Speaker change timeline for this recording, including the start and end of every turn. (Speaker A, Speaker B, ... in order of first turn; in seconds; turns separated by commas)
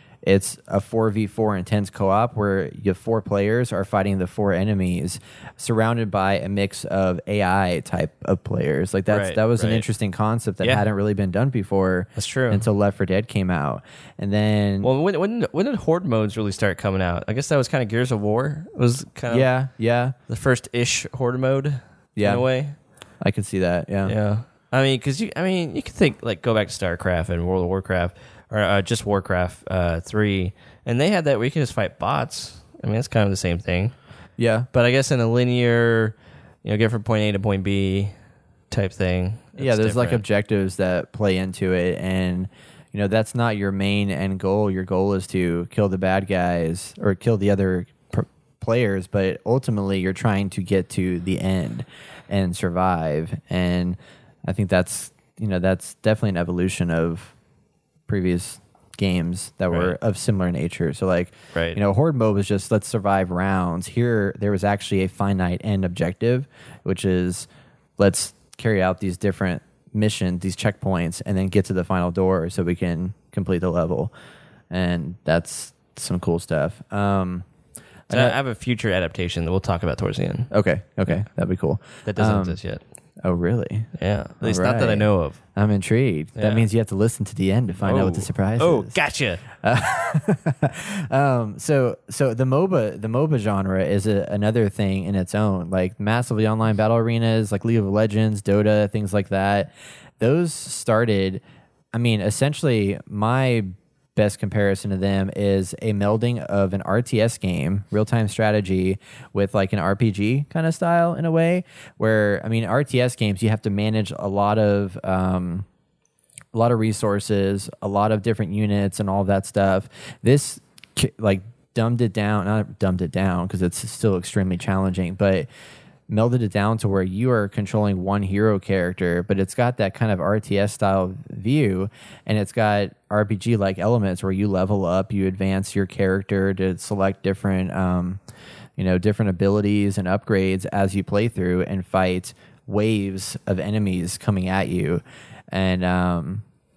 Speaker A: 0.2-14.9, Speaker B: 9.1-9.9, Speaker B: 12.2-12.7, Speaker B: 14.8-19.5, Speaker A: 19.3-20.1, Speaker B: 20.3-22.8, Speaker A: 22.2-22.4, Speaker A: 23.2-24.1, Speaker B: 24.1-33.9, Speaker A: 34.4-34.7, Speaker B: 34.7-38.1, Speaker B: 38.7-40.2, Speaker A: 39.6-57.3, Speaker A: 58.1-74.1, Speaker B: 61.5-61.8, Speaker A: 74.7-77.5, Speaker A: 78.1-78.4, Speaker B: 78.1-80.5, Speaker A: 80.5-82.6, Speaker B: 82.0-82.8, Speaker A: 83.2-89.0, Speaker B: 84.0-85.4, Speaker B: 86.4-86.7, Speaker B: 87.8-89.4, Speaker A: 89.6-101.4, Speaker A: 101.9-115.7, Speaker A: 116.5-125.5, Speaker A: 126.1-138.2, Speaker A: 138.8-146.4